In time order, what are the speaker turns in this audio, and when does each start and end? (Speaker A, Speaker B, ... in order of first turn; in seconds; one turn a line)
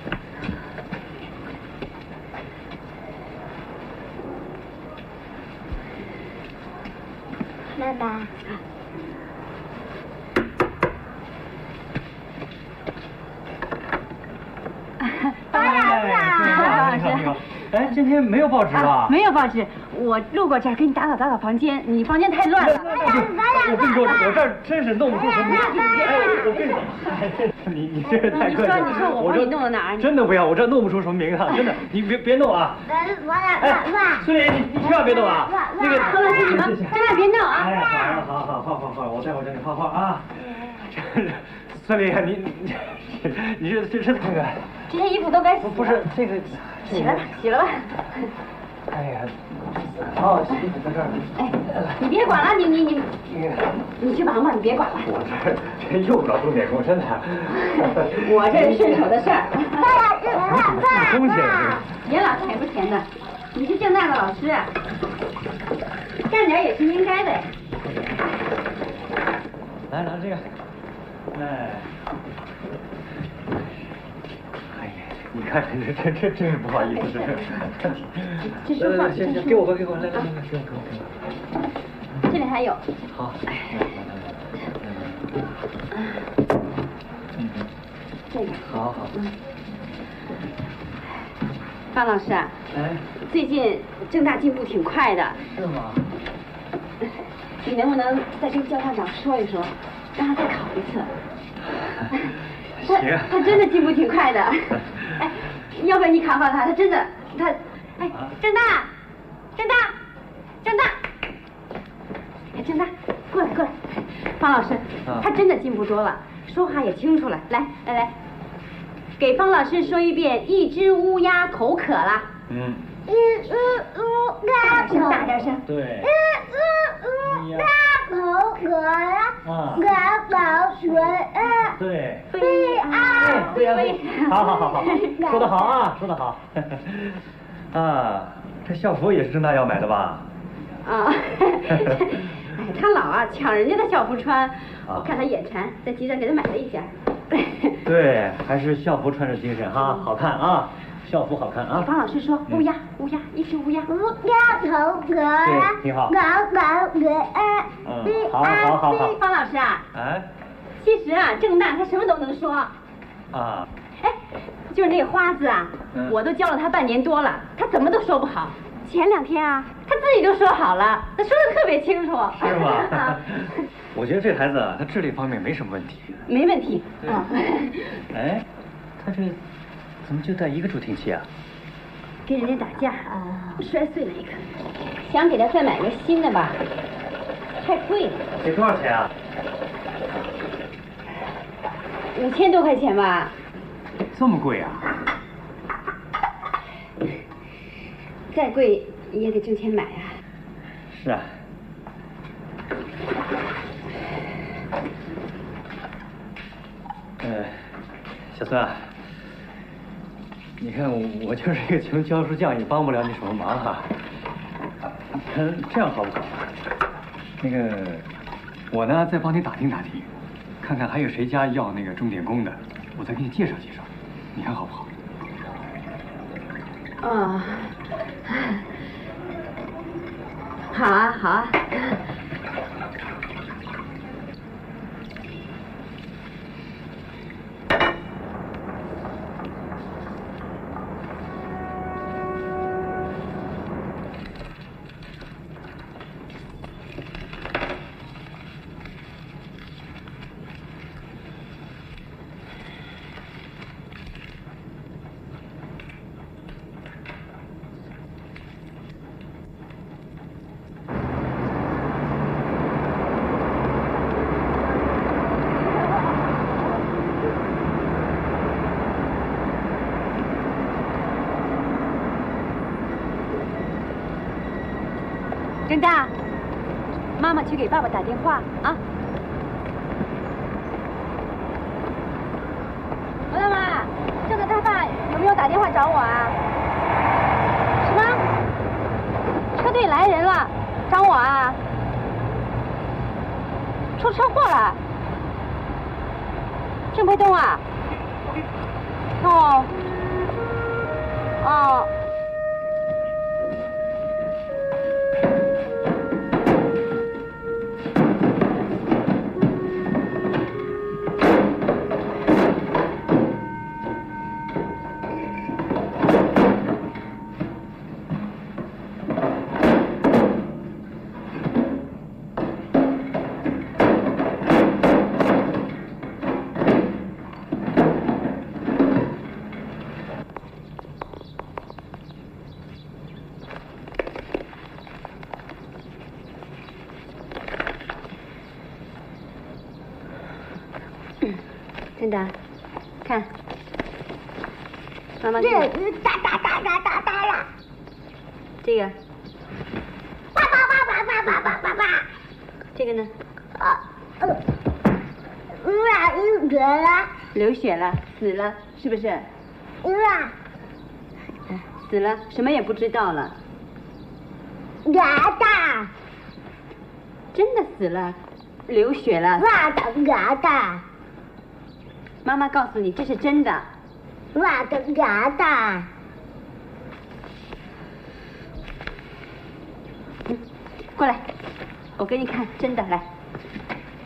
Speaker A: 7.7-8.3
Speaker B: 15.0-17.3
Speaker C: 15.5-19.1
Speaker A: 15.6-16.7
Speaker B: 18.7-22.9
Speaker C: 22.6-32.9
Speaker A: 22.9-24.5
Speaker A: 25.1-26.5
Speaker B: 25.5-26.3
Speaker B: 28.1-30.1
Speaker A: 32.9-36.5
Speaker C: 33.6-44.7
Speaker B: 36.0-37.9
Speaker B: 44.9-46.1
Speaker C: 45.6-47.4
Speaker B: 46.8-48.3
Speaker C: 48.9-52.3
Speaker B: 51.4-53.1
Speaker C: 53.3-53.9
Speaker B: 54.0-55.1
Speaker C: 55.1-58.8
Speaker B: 57.8-59.9
Speaker A: 59.8-61.8
Speaker C: 60.4-61.9
Speaker B: 62.0-64.7
Speaker B: 66.2-67.5
Speaker C: 69.9-70.6
Speaker C: 71.3-71.9
Speaker C: 74.7-81.2
Speaker B: 78.5-80.2
Speaker B: 82.3-82.8
Speaker C: 83.1-85.3
Speaker C: 87.3-87.7
Speaker B: 88.3-89.3
Speaker C: 88.6-89.1
Speaker B: 91.9-92.5
Speaker C: 92.7-93.0
Speaker B: 93.2-95.4
Speaker C: 95.5-96.0
Speaker B: 97.6-101.1
Speaker C: 102.0-103.6
Speaker B: 102.8-108.9
Speaker B: 109.5-109.9
Speaker B: 110.6-111.0
Speaker B: 112.5-118.1
Speaker B: 119.2-122.3
Speaker C: 122.5-122.9
Speaker A: 123.1-125.3
Speaker B: 124.6-125.6
Speaker C: 125.7-126.1
Speaker A: 126.0-131.8
Speaker C: 127.2-127.7
Speaker C: 129.4-129.8
Speaker C: 131.8-132.3
Speaker B: 132.3-135.1
Speaker A: 132.3-135.8
Speaker C: 133.0-140.2
Speaker B: 140.8-147.8
Speaker C: 141.7-142.0
Speaker C: 147.8-151.9
Speaker B: 151.7-153.9
Speaker A: 153.9-159.0
Speaker C: 155.4-156.2
Speaker C: 157.8-159.1
Speaker B: 158.8-159.8
Speaker C: 159.9-160.3
Speaker B: 160.8-162.7
Speaker C: 163.3-163.7
Speaker B: 164.7-173.2
Speaker C: 172.4-176.2
Speaker B: 176.3-178.0
Speaker C: 178.1-178.4
Speaker C: 179.0-179.4
Speaker C: 180.0-181.3
Speaker B: 182.2-184.4
Speaker A: 183.1-183.6
Speaker B: 185.0-186.6
Speaker B: 187.6-188.2
Speaker C: 188.4-189.1
Speaker B: 192.1-193.3
Speaker C: 194.1-194.9
Speaker B: 198.3-200.2
Speaker C: 200.9-201.4
Speaker C: 207.2-207.7
Speaker C: 208.3-209.1
Speaker C: 210.6-214.0
Speaker C: 215.1-216.5
Speaker C: 217.4-218.1
Speaker C: 218.7-220.1
Speaker C: 220.6-224.9
Speaker B: 227.0-227.8
Speaker B: 230.7-231.7
Speaker B: 275.7-276.1
Speaker B: 277.2-278.8
Speaker B: 283.3-286.4
Speaker B: 287.8-288.2
Speaker B: 289.5-291.6
Speaker B: 294.0-294.8
Speaker B: 296.9-297.6
Speaker B: 299.2-299.7
Speaker B: 301.4-301.9
Speaker B: 342.0-342.3
Speaker B: 345.2-345.7
Speaker A: 345.4-347.5
Speaker B: 348.6-348.9
Speaker A: 350.3-352.1
Speaker B: 352.8-353.1
Speaker A: 353.6-354.4
Speaker A: 355.6-357.1
Speaker B: 357.3-359.2
Speaker A: 359.8-360.3
Speaker B: 361.5-363.3
Speaker A: 364.9-365.9
Speaker B: 367.3-368.1
Speaker B: 368.7-369.4
Speaker A: 369.4-370.8
Speaker B: 372.2-373.7
Speaker A: 374.3-375.9
Speaker B: 381.0-381.2
Speaker B: 382.0-383.0